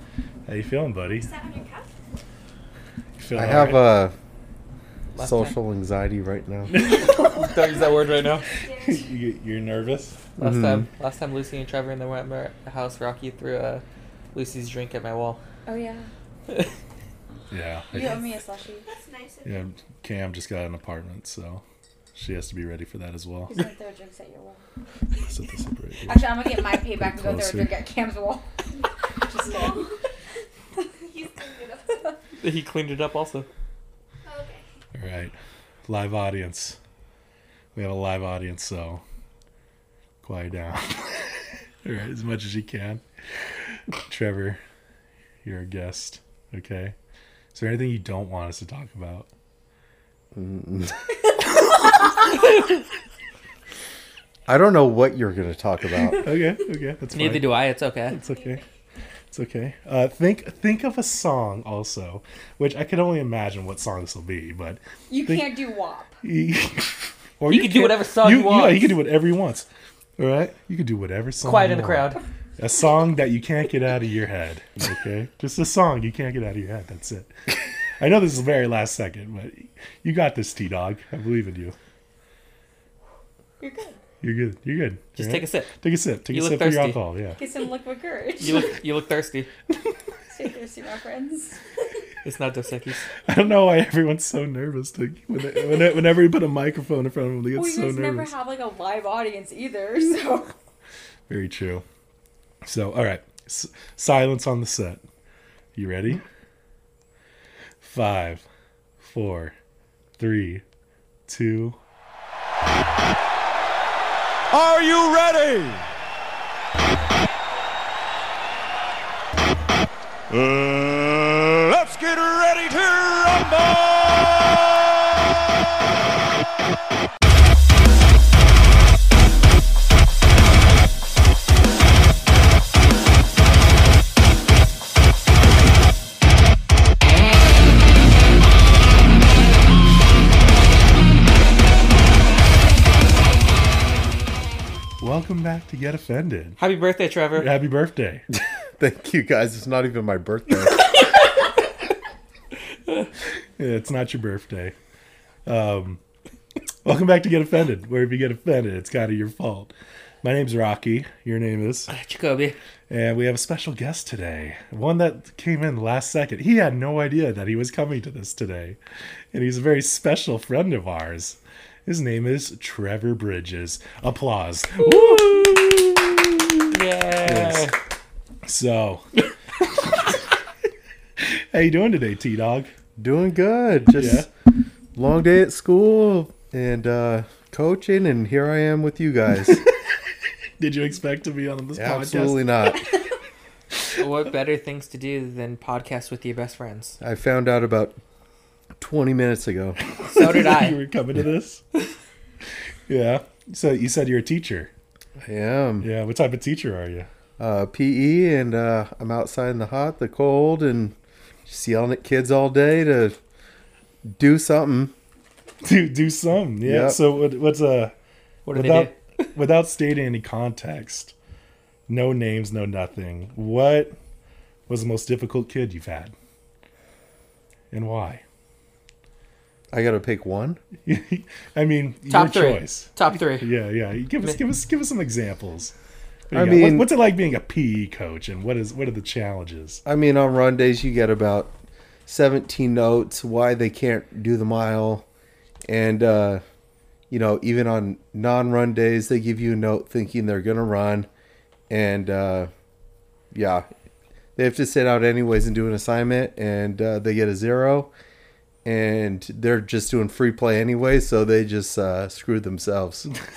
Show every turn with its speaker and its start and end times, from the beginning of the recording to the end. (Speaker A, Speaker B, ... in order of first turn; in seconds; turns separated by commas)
Speaker A: 0.5-1.3, Speaker B: 1.1-1.9, Speaker A: 3.2-3.8, Speaker C: 3.4-4.1, Speaker D: 5.1-5.5, Speaker C: 5.2-6.7, Speaker A: 6.7-7.6, Speaker D: 6.8-8.4, Speaker B: 8.6-9.1, Speaker A: 8.7-10.2, Speaker C: 10.4-10.9, Speaker D: 10.4-15.4, Speaker E: 15.7-16.1, Speaker A: 17.5-18.1, Speaker E: 17.9-18.9, Speaker B: 18.9-19.6, Speaker A: 19.4-21.6, Speaker A: 22.1-23.5, Speaker E: 23.5-24.6, Speaker A: 25.2-27.7, Speaker E: 26.1-28.5, Speaker B: 29.1-29.9, Speaker E: 29.3-29.8, Speaker B: 30.9-32.2, Speaker D: 32.4-33.5, Speaker B: 34.2-34.6, Speaker A: 35.0-35.3, Speaker A: 35.9-36.8, Speaker A: 37.8-39.0, Speaker A: 40.2-43.0, Speaker A: 44.0-44.6, Speaker A: 45.4-47.0, Speaker A: 47.5-49.3, Speaker C: 50.3-50.9, Speaker C: 54.5-56.2, Speaker A: 56.2-58.6, Speaker D: 57.1-58.2, Speaker B: 58.3-58.6, Speaker A: 59.3-65.5, Speaker E: 65.1-66.1, Speaker A: 66.2-69.7, Speaker D: 67.5-68.9, Speaker A: 70.2-81.8, Speaker D: 71.4-72.2, Speaker E: 83.6-84.0, Speaker A: 84.2-87.4, Speaker D: 85.2-85.7, Speaker D: 86.3-87.0, Speaker E: 87.4-88.7, Speaker D: 88.4-89.5, Speaker E: 90.3-91.6, Speaker D: 92.2-93.1, Speaker A: 93.2-98.3, Speaker E: 97.6-100.5, Speaker A: 101.3-101.8, Speaker A: 102.6-105.0, Speaker A: 105.8-106.2, Speaker A: 107.8-108.4, Speaker A: 109.0-109.5, Speaker A: 110.2-110.6, Speaker A: 111.3-111.8, Speaker F: 114.5-115.8, Speaker F: 120.3-125.3, Speaker A: 145.0-146.6, Speaker D: 146.6-147.5, Speaker A: 147.3-148.2, Speaker C: 148.3-150.9, Speaker A: 153.6-154.7, Speaker A: 155.5-156.0, Speaker A: 156.8-159.7, Speaker A: 160.2-161.9, Speaker D: 161.9-162.6, Speaker A: 162.9-168.8, Speaker A: 169.3-176.2, Speaker D: 176.7-177.8, Speaker A: 177.2-177.7, Speaker A: 178.5-179.1, Speaker A: 181.2-182.7, Speaker C: 183.0-184.3, Speaker A: 183.9-184.3, Speaker C: 184.9-189.6, Speaker A: 190.6-192.5, Speaker C: 191.8-192.8, Speaker D: 194.0-197.0, Speaker C: 197.0-198.0, Speaker C: 198.8-199.8, Speaker A: 199.8-201.6, Speaker D: 200.1-200.8, Speaker A: 202.9-204.7, Speaker C: 205.2-205.9, Speaker A: 205.8-207.1, Speaker C: 207.4-210.9, Speaker C: 211.5-213.2, Speaker C: 214.1-214.9, Speaker A: 215.6-217.9, Speaker C: 216.6-217.0, Speaker D: 218.5-219.3, Speaker A: 218.5-221.1, Speaker A: 221.9-223.9, Speaker A: 224.7-226.1, Speaker A: 227.7-228.2, Speaker C: 229.7-230.6, Speaker A: 230.8-235.7, Speaker D: 232.1-233.5, Speaker A: 236.3-239.8, Speaker C: 236.3-236.9, Speaker C: 239.8-241.5, Speaker C: 242.1-245.1, Speaker C: 245.7-246.4, Speaker C: 247.1-251.1, Speaker C: 251.7-252.5, Speaker C: 253.3-253.7, Speaker C: 254.3-257.9, Speaker C: 258.6-263.1